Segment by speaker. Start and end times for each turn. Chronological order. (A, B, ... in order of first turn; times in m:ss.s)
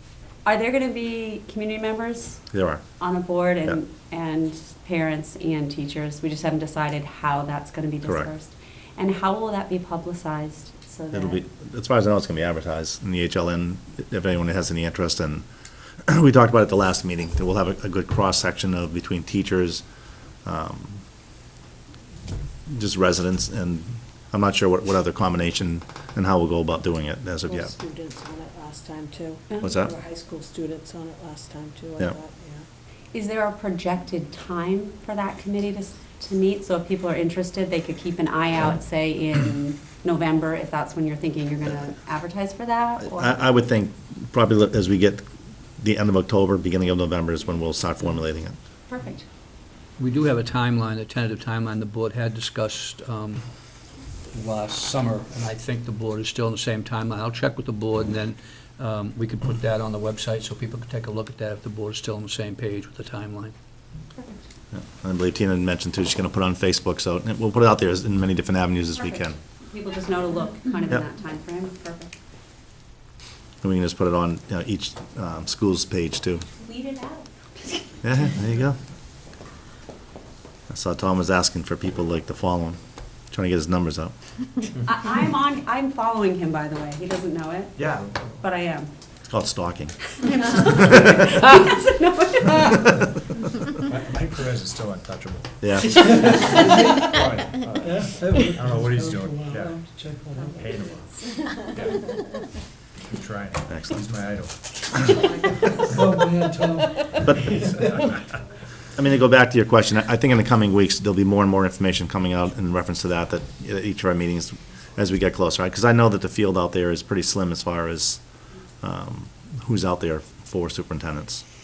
0:00.4-0:02.4 A
0:02.5-0:02.8 B
0:03.0-0:11.4 A
0:08.0-0:08.3 B
0:11.1-0:15.5 B
0:16.0-0:19.8 B
0:20.4-0:21.0 B
0:22.7-0:27.7 B
0:27.4-0:32.7 C
0:29.6-0:30.0 B
0:33.1-0:43.4 A
0:43.0-0:45.2 B
0:45.8-0:48.6 B
0:48.9-0:49.2 A
0:50.0-0:53.5 D
0:54.3-1:03.5 D
1:04.2-1:04.4 A
1:04.7-1:09.4 B
1:09.0-1:12.1 A
1:13.6-1:16.5 B
1:16.6-1:18.0 A
1:18.0-1:18.8 B
1:20.7-1:22.8 B
1:23.3-1:24.1 B
1:24.8-1:27.8 A
1:27.8-1:28.4 E
1:28.4-1:28.9 A
1:29.3-1:31.1 B
1:30.2-1:33.1 A
1:33.9-1:39.8 E
1:35.6-1:36.2 B
1:40.5-1:41.9 E
1:43.0-1:44.6 E
1:43.7-1:43.9 B
1:47.1-1:47.5 B
1:49.0-1:58.2 B
1:58.8-2:01.4 B